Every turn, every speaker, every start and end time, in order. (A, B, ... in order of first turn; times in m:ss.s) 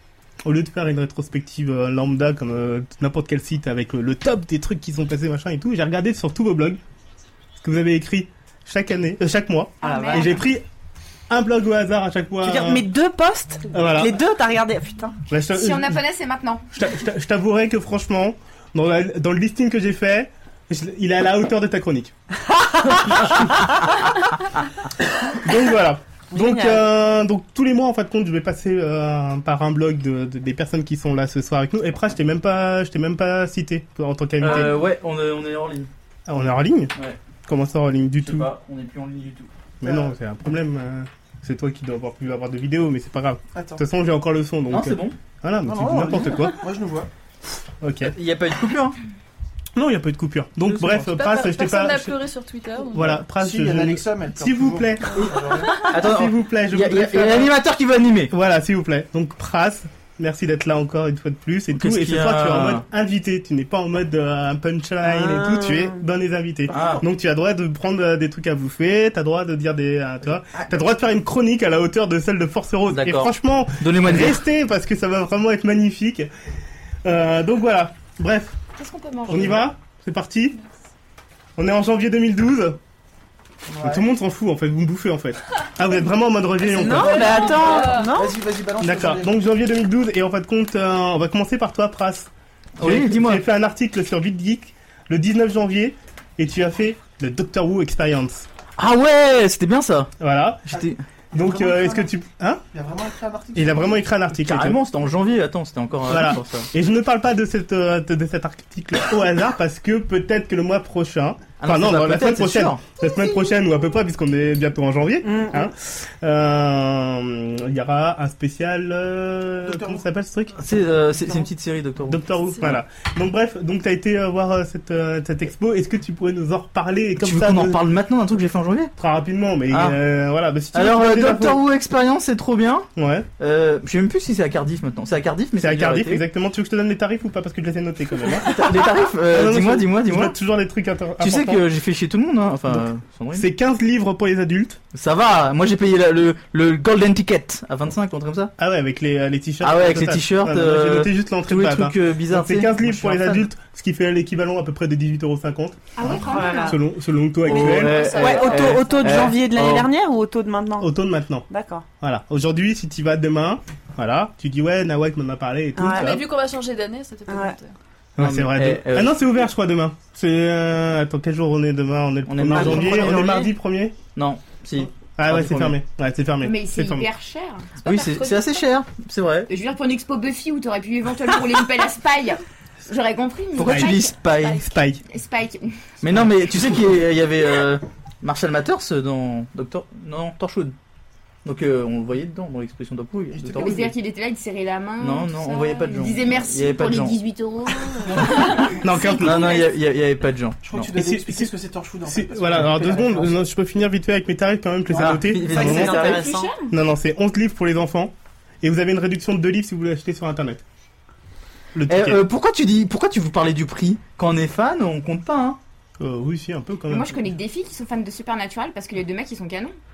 0:00.4-0:06.8 A
0:07.6-0:10.6 A
0:09.8-0:10.4 B
0:09.8-0:10.4 C
0:11.3-0:12.8 A
0:12.4-0:15.2 C
0:13.7-0:14.2 A
0:15.3-0:16.0 A
0:15.5-0:16.6 B
0:16.7-0:22.1 A
0:22.6-0:23.2 C
0:25.4-0:34.8 A
0:26.3-0:26.8 C
0:34.4-0:35.9 D
0:36.3-0:36.9 A
0:37.5-0:38.5 A
0:38.2-0:39.5 D
0:39.8-0:46.6 A
0:39.8-0:40.1 E
0:43.5-0:43.8 E
0:44.7-0:45.2 D
0:45.6-0:47.1 E
0:47.8-0:48.1 A
0:48.1-0:49.0 D
0:49.8-0:52.2 A
0:50.7-0:51.0 D
0:51.0-0:53.2 F
0:52.9-0:55.2 A
0:53.3-0:55.8 E
0:55.1-0:58.3 D
0:55.9-0:57.5 A
0:58.3-1:16.3 A
1:01.7-1:02.8 D
1:05.0-1:06.0 C
1:06.7-1:07.0 D
1:12.9-1:14.4 D
1:17.0-1:18.6 A
1:18.8-1:19.6 B
1:19.3-1:20.6 A
1:21.6-1:22.8 A
1:23.7-1:24.0 E
1:23.8-1:27.7 A
1:26.7-1:28.4 C
1:27.0-1:28.1 F
1:27.7-1:29.3 E
1:28.8-1:32.3 A
1:32.8-1:33.4 D
1:32.8-1:38.4 A
1:38.8-1:40.1 D
1:40.2-1:40.6 A
1:40.7-1:41.0 D
1:40.7-1:42.1 E
1:41.3-1:42.6 A
1:42.7-1:43.9 E
1:43.5-1:44.8 A
1:44.3-1:46.7 D
1:46.1-2:00.6 A
1:51.6-1:52.8 D
1:55.2-1:55.7 C
1:59.6-2:00.0 E
2:00.6-2:02.8 D
2:02.1-2:07.8 A
2:07.2-2:08.9 D
2:09.0-2:11.6 A
2:09.7-2:10.0 D
2:10.7-2:16.2 D
2:13.0-2:13.3 A
2:15.6-2:21.6 A
2:18.4-2:20.3 D
2:21.2-2:23.5 D
2:22.7-2:24.8 A
2:24.9-2:28.5 D
2:28.6-2:38.0 A
2:29.6-2:33.5 D
2:36.0-2:36.8 B
2:36.2-2:36.8 C
2:37.4-2:39.9 D
2:37.5-2:40.9 C
2:37.7-2:39.3 F
2:40.8-2:41.4 A
2:41.5-2:41.8 C
2:42.0-2:46.2 A
2:45.8-2:46.2 C
2:45.9-2:47.7 F
2:47.3-2:47.6 C
2:48.2-2:54.0 A
2:48.2-2:49.1 D
2:52.3-2:53.4 D
2:52.5-2:53.5 C
2:54.1-2:55.8 D
2:55.2-2:57.1 A
2:56.4-2:57.7 B
2:57.8-2:59.5 D
2:57.8-2:58.3 F
2:59.5-3:04.5 B
3:03.6-3:04.7 D
3:03.6-3:03.9 A
3:04.6-3:05.0 A
3:05.1-3:05.8 B
3:06.0-3:10.7 D
3:11.4-3:13.9 D
3:13.3-3:13.9 E
3:13.5-3:19.7 B
3:15.0-3:17.2 D
3:18.0-3:18.7 E
3:18.8-3:19.6 A
3:19.2-3:20.9 D
3:20.6-3:23.4 E
3:21.0-3:21.5 A
3:22.1-3:26.0 A
3:24.9-3:26.2 D
3:25.3-3:26.5 C
3:25.6-3:26.7 B
3:26.7-3:30.6 A
3:31.7-3:32.2 A
3:31.9-3:35.6 D
3:36.0-3:37.2 A
3:36.9-3:39.8 B